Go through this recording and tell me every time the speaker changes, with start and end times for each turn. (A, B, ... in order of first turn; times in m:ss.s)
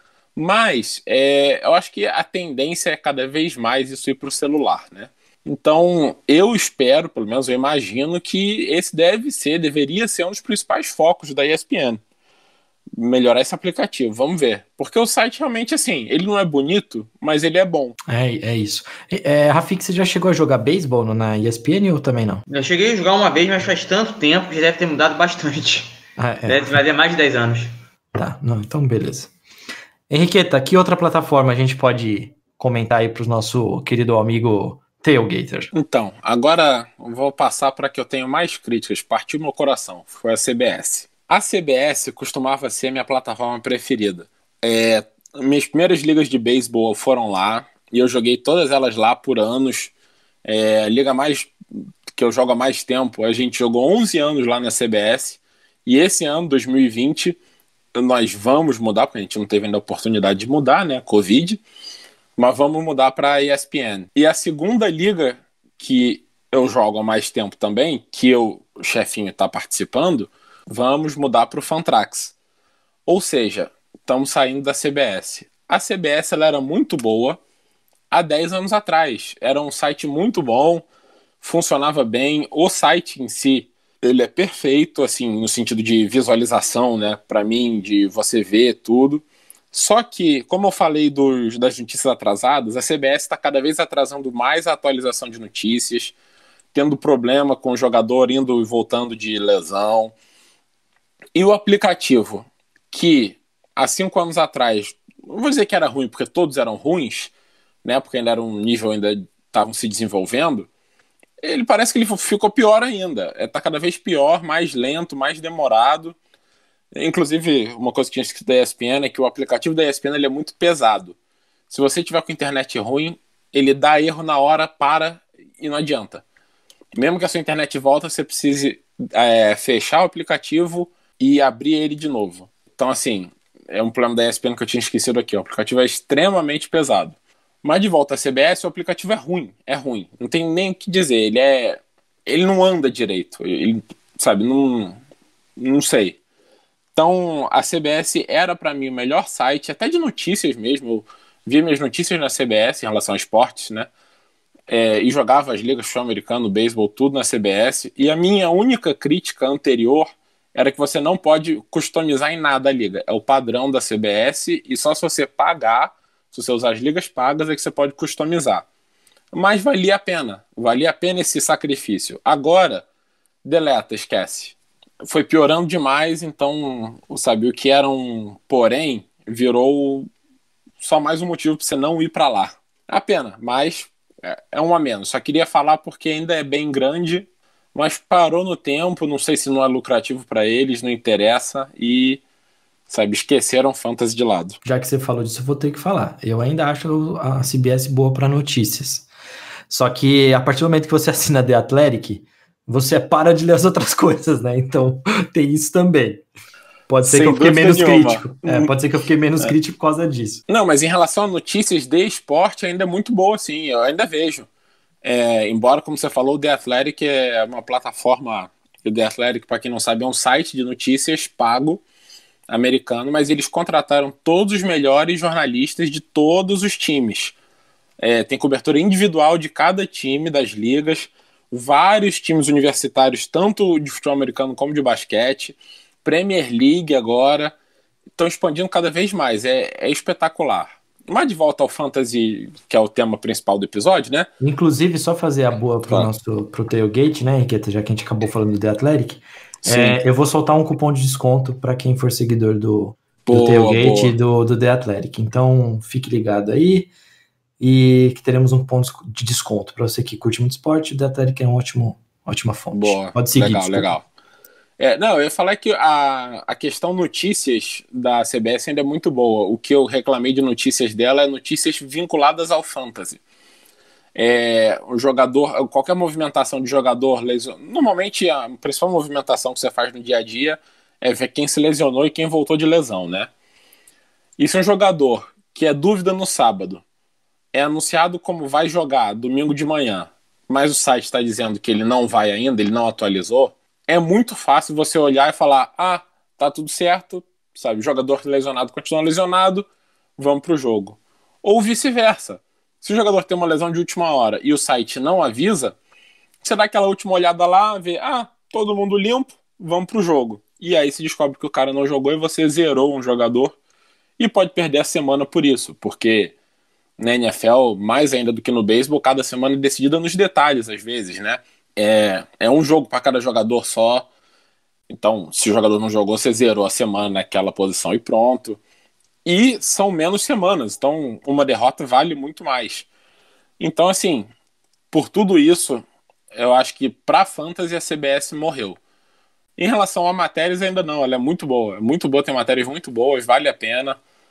0:00.4-0:12.0 A
0:13.0-0:18.0 A
0:18.1-0:22.4 B
0:22.5-0:26.0 C
0:26.2-0:26.8 B
0:26.5-0:27.7 C
0:28.2-0:29.3 B
0:30.1-0:35.7 B
0:35.7-0:49.9 A
0:50.4-0:51.5 A
0:52.1-0:57.4 A
0:57.9-1:01.6 A
1:02.4-1:12.4 A
1:13.1-1:17.4 A
1:18.1-1:20.9 A
1:21.4-1:36.1 A
1:36.7-1:40.2 A
1:41.4-1:47.3 A
1:47.8-1:50.7 A
1:51.4-1:56.2 A
1:57.0-2:01.2 A
2:01.7-2:06.2 A
2:07.0-2:25.0 A
2:25.6-2:26.2 A
2:27.0-2:33.9 A
2:34.7-2:48.6 A
2:49.3-2:52.8 A
2:53.4-3:00.1 A
3:00.8-3:12.2 A
3:12.9-3:14.6 A
3:14.6-3:19.1 B
3:19.7-3:26.2 B
3:26.9-3:30.4 B
3:27.0-3:28.7 A
3:30.5-3:34.5 A
3:35.0-3:41.8 A
3:42.5-3:47.4 A
3:48.0-3:57.5 A
3:58.2-4:04.3 A
4:04.4-4:16.9 B
4:09.6-4:10.0 A
4:13.3-4:14.2 A
4:17.6-4:24.0 B
4:22.7-4:24.0 A
4:24.8-4:33.2 A
4:34.2-4:43.3 A
4:44.4-4:46.8 A
4:47.5-5:05.8 A
5:06.4-5:13.6 A
5:14.2-5:16.3 A
5:17.0-5:24.1 A
5:24.9-5:28.6 A
5:29.2-5:32.9 A
5:33.6-5:34.3 A
5:34.9-5:38.8 A
5:39.6-5:44.0 A